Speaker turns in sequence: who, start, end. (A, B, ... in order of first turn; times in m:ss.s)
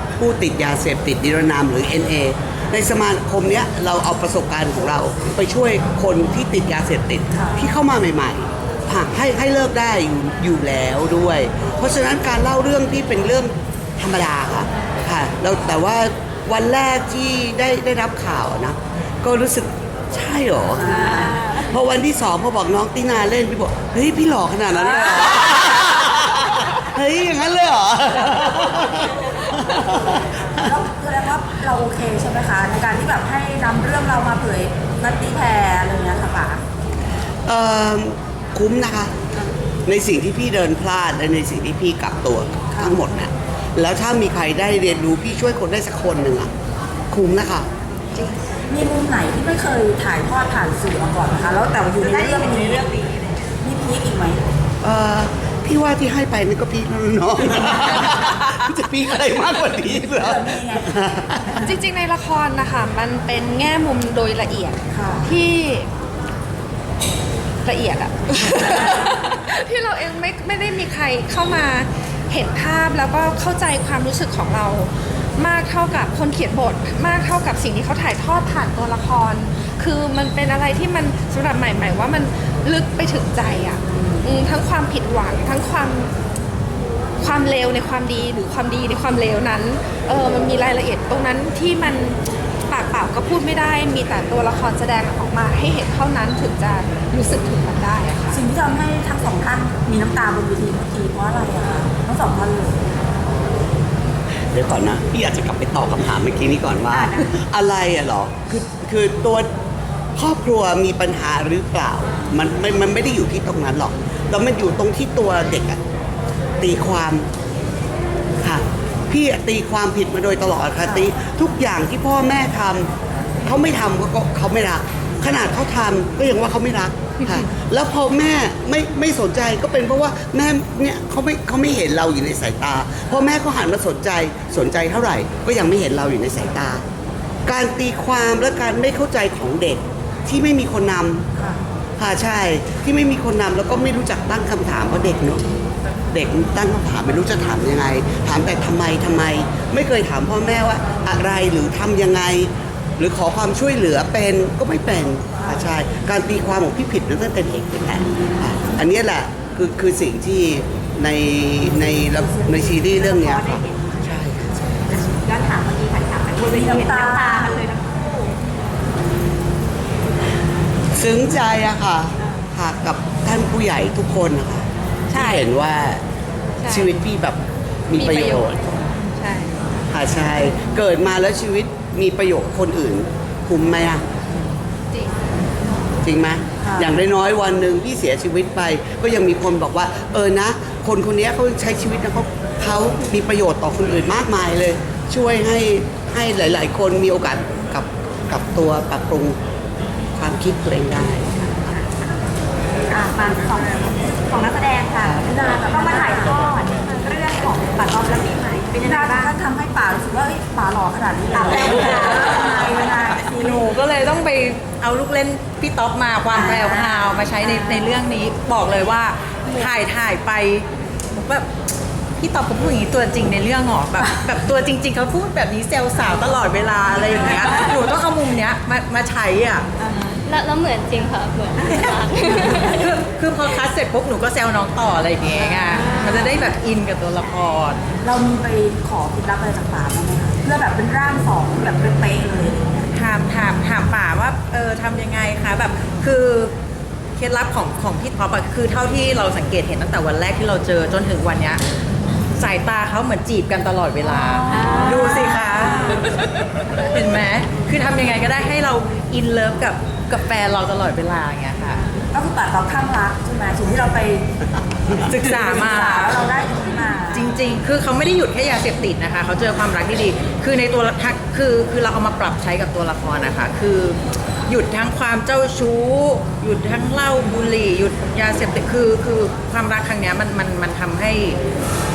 0:00.2-0:30.3 A
0:07.3-0:07.6 B
0:20.8-0:21.4 B
0:20.9-0:21.6 C
0:24.8-0:25.3 B
0:30.6-0:36.6 B
0:37.4-0:39.1 A
0:39.8-0:46.5 A
0:42.7-0:43.0 B
0:47.1-0:47.7 A
0:48.7-0:52.9 B
0:52.0-0:53.4 C
0:53.6-0:54.4 B
0:54.8-1:01.6 A
1:00.0-1:00.9 B
1:01.6-1:05.9 D
1:04.9-1:05.4 B
1:07.6-1:26.1 D
1:08.6-1:09.1 B
1:23.9-1:24.2 B
1:27.2-1:38.4 D
1:38.3-1:42.8 B
1:44.5-1:49.5 A
1:50.2-1:55.8 A
1:56.6-1:57.3 A
1:58.4-2:02.9 A
2:03.4-2:16.8 A
2:17.4-2:21.2 A
2:21.4-2:21.6 B
2:22.0-2:25.4 A
2:26.1-2:45.3 A
2:42.2-2:42.5 B
2:42.6-2:43.8 C
2:44.9-2:48.3 C
2:46.4-2:47.6 B
2:51.0-2:56.0 A
2:55.1-2:55.4 D
2:56.6-2:57.0 D
2:56.7-2:58.8 A
2:57.9-2:58.5 D
2:59.0-2:59.6 D
2:59.9-3:04.0 A
3:04.9-3:05.2 D
3:06.0-3:19.4 A
3:06.6-3:07.0 B
3:20.2-3:21.5 A
3:21.7-3:22.0 C
3:22.9-3:29.3 C
3:25.0-3:26.4 B
3:28.8-3:33.6 B
3:31.3-3:32.2 C
3:33.2-3:41.5 E
3:36.3-3:36.6 B
3:42.2-3:50.2 E
3:50.2-3:52.9 F
3:52.6-3:57.8 E
3:55.7-3:56.2 F
3:58.0-4:02.9 B
4:02.9-4:06.5 E
4:07.2-4:11.6 E
4:12.4-4:21.8 E
4:14.0-4:16.0 B
4:22.1-4:24.3 B
4:25.0-4:26.2 E
4:25.0-4:27.4 B
4:27.1-4:41.4 E